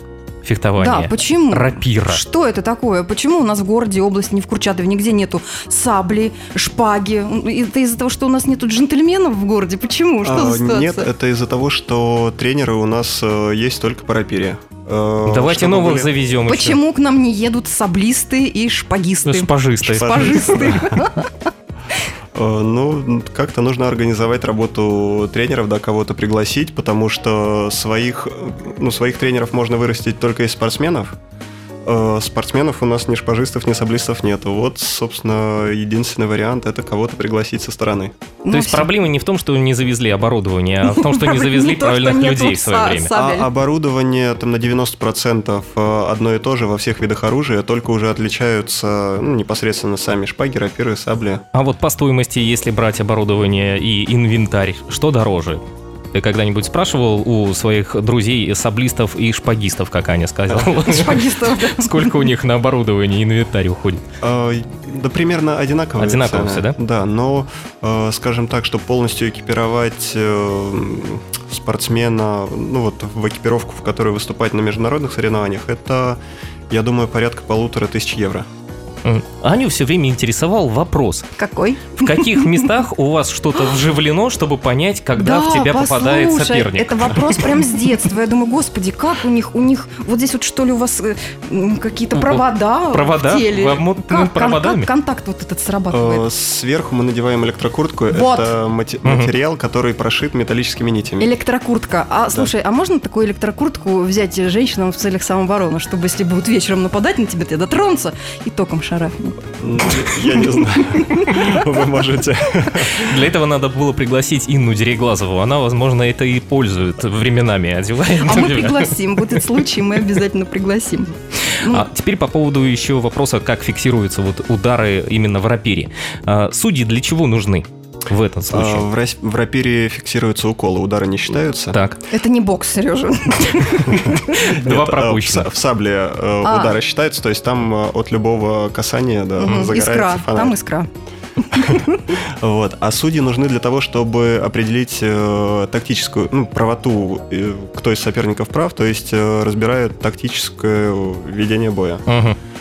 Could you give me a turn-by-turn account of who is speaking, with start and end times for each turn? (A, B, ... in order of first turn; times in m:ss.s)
0:00.4-0:02.2 A
0:00.8-0:11.1 B
0:10.2-0:16.1 C
0:15.2-0:16.8 A
0:16.5-0:21.3 B
0:19.2-0:20.8 A
0:20.0-0:20.9 C
0:22.3-0:31.2 C
0:31.8-0:38.2 C
0:38.4-0:38.9 B
0:38.5-0:43.1 A
0:40.9-0:43.5 B
0:43.1-0:51.4 C
0:51.5-0:55.6 A
0:56.1-1:04.0 A
1:00.8-1:02.3 B
1:04.2-1:18.5 C
1:06.0-1:06.8 A
1:19.0-1:21.3 A
1:21.4-1:22.7 B
1:22.0-1:27.5 A
1:25.2-1:36.3 B
1:32.1-1:34.9 A
1:35.9-1:41.3 C
1:38.1-1:38.5 B
1:39.0-1:39.3 A
1:41.2-1:51.5 B
1:49.6-1:53.2 C
1:52.9-1:59.0 A
1:58.2-2:01.9 B
2:01.6-2:08.8 A
2:08.5-2:11.8 C
2:11.7-2:12.0 A
2:12.1-2:14.4 B
2:14.2-2:15.5 A
2:14.3-2:20.6 C
2:16.4-2:16.8 B
2:19.4-2:20.9 B
2:21.4-2:22.0 B
2:21.6-2:32.0 C
2:32.1-2:32.4 A